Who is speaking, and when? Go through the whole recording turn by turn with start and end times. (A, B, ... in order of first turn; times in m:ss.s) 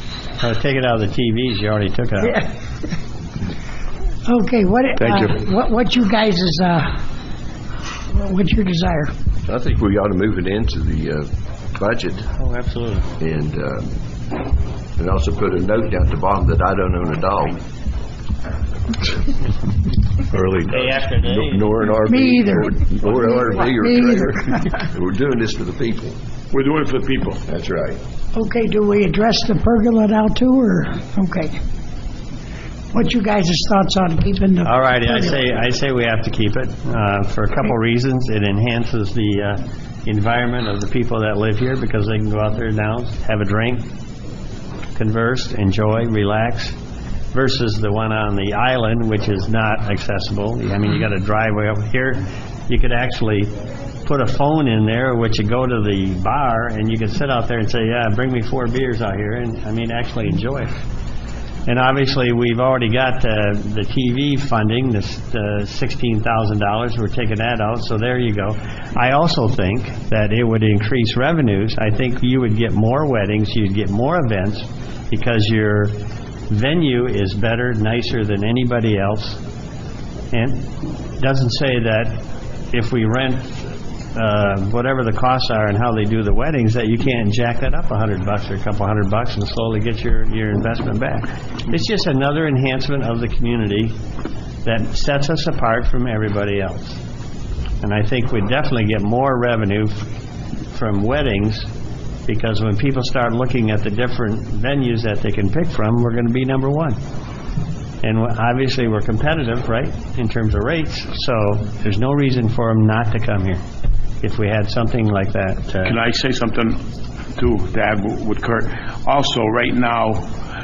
0:00.4-0:02.4 A
0:04.3-0:06.9 B
0:05.0-0:05.4 C
0:08.1-0:09.1 B
0:09.5-0:12.3 D
0:12.4-0:13.1 A
0:13.2-0:14.0 D
0:15.0-0:17.6 D
0:20.5-0:26.2 D
0:20.6-0:21.7 A
0:22.1-0:24.5 B
0:26.5-0:27.4 C
0:27.5-0:28.0 D
0:28.3-0:31.6 B
0:32.9-0:35.4 B
0:34.6-0:43.9 A
0:45.0-0:46.8 A
0:47.3-0:53.5 A
0:54.0-1:00.8 A
1:01.7-1:15.9 A
1:16.5-1:19.4 A
1:20.3-1:22.2 A
1:22.7-1:34.0 A
1:34.6-1:37.0 A
1:37.8-1:40.1 A
1:40.7-1:41.7 A
1:42.3-1:47.0 A
1:48.0-1:53.6 A
1:54.2-1:56.0 A
1:55.8-1:56.8 C
1:57.4-2:00.3 C